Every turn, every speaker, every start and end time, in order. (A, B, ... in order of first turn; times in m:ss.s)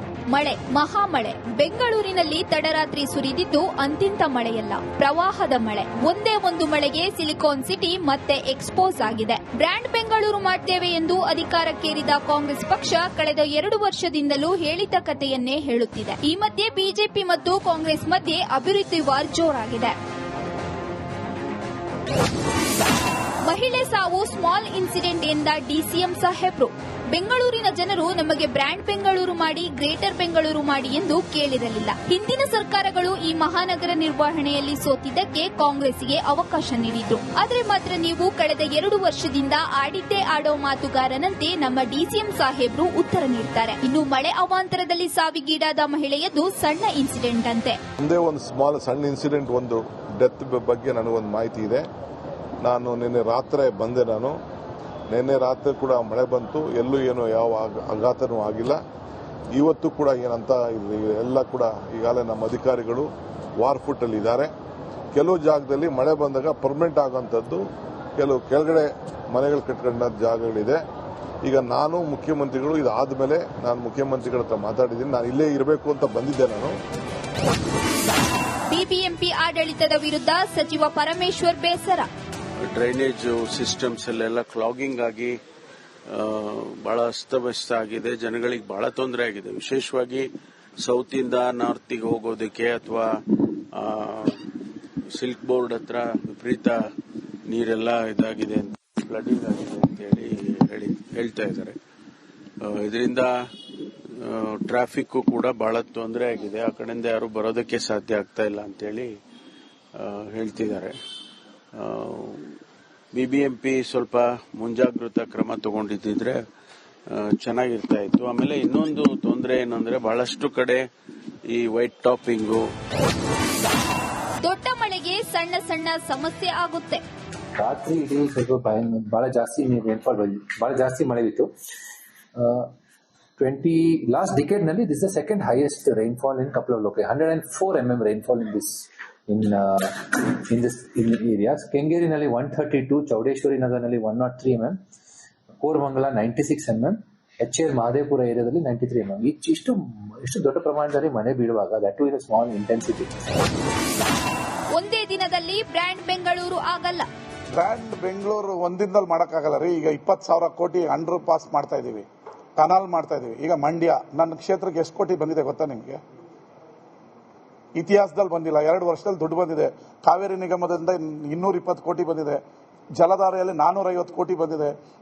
0:00.3-0:19.9 A
0:23.4-0:47.8 A
0:48.0-0:51.8 B
0:52.6-0:54.4 B
0:55.1-0:58.8 B
0:59.5-1:03.1 B
1:03.6-1:04.5 B
1:05.1-1:07.6 B
1:08.2-1:10.8 B
1:11.4-1:16.8 B
1:18.7-1:22.1 A
1:22.7-1:25.4 C
1:26.1-1:30.3 C
1:30.8-1:33.2 C
1:33.7-1:34.4 C
1:35.2-1:36.8 C
1:37.5-1:41.8 C
1:42.6-1:43.3 C
1:44.2-1:49.1 C
1:50.0-1:50.9 C
1:51.8-1:52.5 C
1:53.1-1:56.4 C
1:57.1-2:00.8 C
2:01.5-2:02.7 C
2:04.4-2:07.0 A
2:07.6-2:11.4 D
2:12.4-2:12.7 D
2:13.4-2:24.8 D
2:25.6-2:33.1 D
2:34.7-2:37.1 A
2:37.6-2:42.0 E
2:42.6-2:46.0 E
2:47.8-2:52.4 E
2:53.0-2:54.7 E